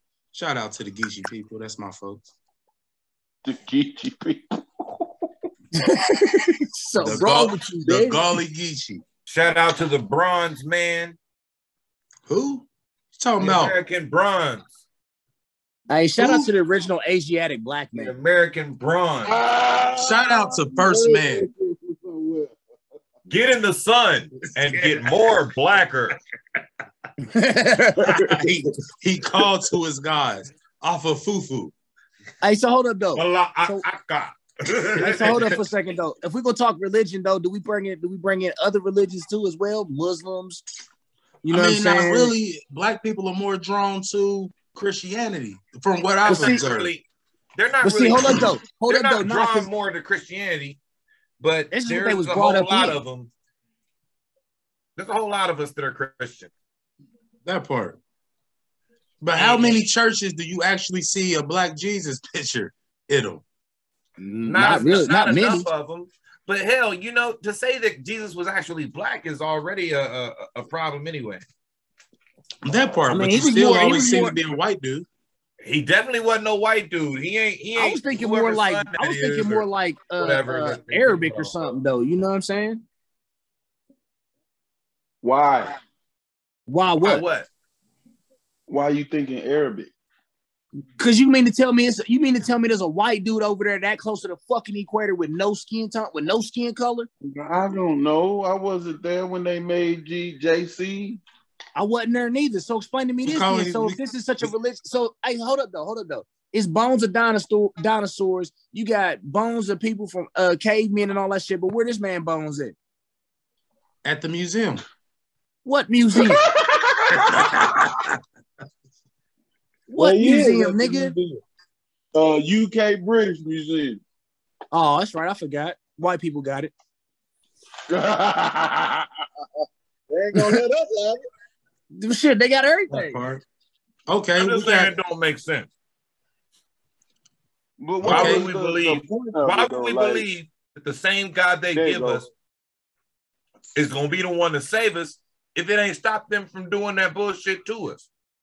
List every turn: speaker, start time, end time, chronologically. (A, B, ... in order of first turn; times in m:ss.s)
0:00.3-0:02.3 A
0:03.4-0:04.9 B
0:05.7-0:08.2 C
0:07.0-0:09.0 A
0:09.3-0:11.2 D
0:12.3-0:13.8 A
0:13.4-0:14.7 D
0:15.9-0:18.1 C
0:17.9-0:19.4 D
0:19.2-0:22.5 B
0:20.0-0:21.5 A
0:23.3-0:26.2 D
0:24.4-0:25.1 A
0:27.2-0:28.5 C
0:28.2-0:31.7 A
0:32.4-0:33.8 C
0:33.2-0:35.6 D
0:35.0-0:40.6 C
0:41.4-0:42.3 C
0:41.5-0:46.9 A
0:46.2-0:50.8 D
0:46.3-0:46.6 C
0:47.8-0:49.7 C
0:51.4-0:53.3 D
0:51.7-0:53.0 C
0:55.0-0:56.5 D
0:57.4-0:58.0 A
0:59.2-1:03.4 A
0:59.4-0:59.8 D
1:04.2-1:05.7 C
1:04.5-1:11.4 D
1:12.6-1:15.1 A
1:13.1-1:14.4 C
1:15.6-1:19.7 D
1:17.8-1:22.8 C
1:20.2-1:21.7 D
1:25.2-1:25.8 B
1:26.7-1:27.2 C
1:27.0-1:27.5 D
1:28.7-1:29.9 B
1:31.0-1:37.1 C
1:37.2-1:41.2 B
1:41.8-1:52.8 C
1:43.2-1:44.5 A
1:54.0-1:54.8 A
1:55.6-1:56.4 C
1:56.2-1:57.5 B
1:57.2-1:58.1 A
1:59.9-2:01.2 C
2:00.0-2:01.4 B
2:02.1-2:04.0 B
2:04.7-2:06.7 C
2:07.9-2:09.1 B
2:10.1-2:11.2 B
2:11.9-2:13.2 C
2:13.0-2:13.4 A
2:14.1-2:14.9 A
2:14.4-2:15.7 D
2:17.8-2:20.3 B
2:18.0-2:22.3 D
2:18.0-2:18.5 A
2:21.7-2:22.2 B
2:23.8-2:28.0 D